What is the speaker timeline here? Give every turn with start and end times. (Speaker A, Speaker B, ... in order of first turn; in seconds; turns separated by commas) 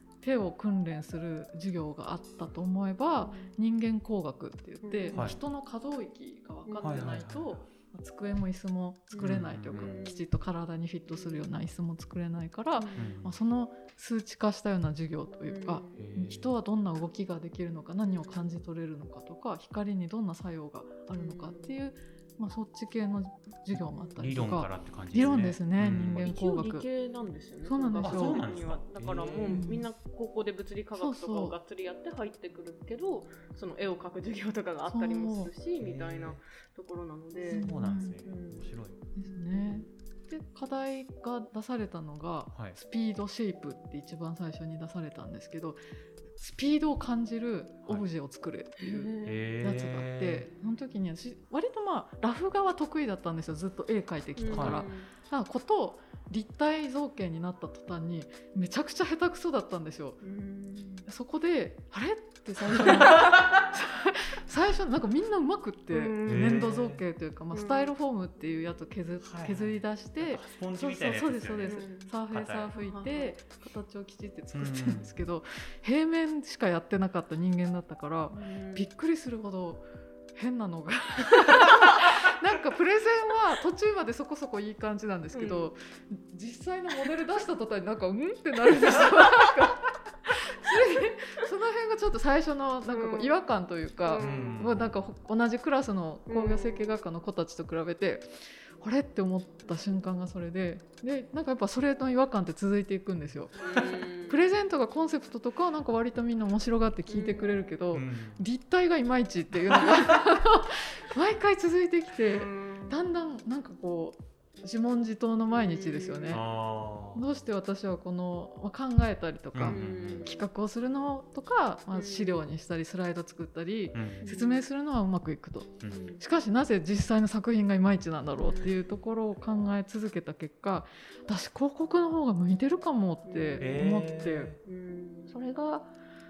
Speaker A: 0.2-26.9, Speaker B: 3.2-3.5, Speaker B: 4.8-5.3, Speaker C: 5.1-5.4, Speaker B: 6.7-7.0, Speaker C: 6.8-7.7, Speaker B: 9.1-10.2, Speaker C: 9.2-10.0, Speaker B: 11.1-11.5, Speaker B: 12.8-13.1, Speaker C: 13.0-13.4, Speaker B: 15.4-16.0, Speaker C: 16.0-16.5, Speaker B: 18.1-18.5, Speaker B: 21.1-21.7, Speaker B: 23.8-24.2, Speaker C: 24.2-26.3, Speaker B: 25.8-37.7, Speaker A: 27.6-28.4, Speaker C: 28.0-29.6, Speaker A: 29.5-29.9, Speaker A: 31.0-31.5, Speaker A: 34.9-35.5, Speaker C: 35.8-36.4, Speaker A: 37.5-38.2, Speaker C: 37.5-39.0, Speaker B: 38.2-39.8, Speaker A: 39.1-45.8, Speaker C: 42.5-42.8, Speaker A: 46.4-60.2, Speaker B: 48.8-49.5, Speaker C: 49.2-50.5, Speaker B: 54.4-55.1, Speaker C: 54.5-54.8, Speaker B: 60.2-61.1, Speaker A: 61.0-103.6, Speaker B: 65.9-66.7, Speaker C: 66.2-67.0, Speaker B: 67.5-67.9, Speaker C: 69.2-72.7, Speaker B: 71.6-72.1, Speaker B: 72.8-73.3, Speaker C: 74.5-75.2, Speaker B: 78.3-78.9, Speaker B: 85.3-85.7, Speaker B: 92.9-93.3, Speaker B: 94.0-94.6, Speaker C: 94.2-94.9, Speaker B: 96.3-96.9, Speaker B: 103.5-104.4, Speaker A: 104.3-116.5, Speaker B: 107.1-107.7, Speaker C: 107.9-108.4, Speaker C: 109.7-110.2, Speaker B: 112.3-113.0, Speaker B: 115.5-116.4, Speaker C: 116.3-117.3, Speaker A: 117.1-134.6, Speaker C: 119.5-120.3, Speaker B: 119.7-120.4, Speaker B: 121.9-122.4, Speaker C: 123.9-124.2, Speaker B: 124.2-124.6, Speaker C: 125.8-126.1, Speaker B: 125.9-126.2, Speaker B: 128.4-128.7, Speaker B: 133.2-133.7, Speaker C: 133.6-134.6, Speaker B: 134.6-135.4, Speaker A: 135.3-135.9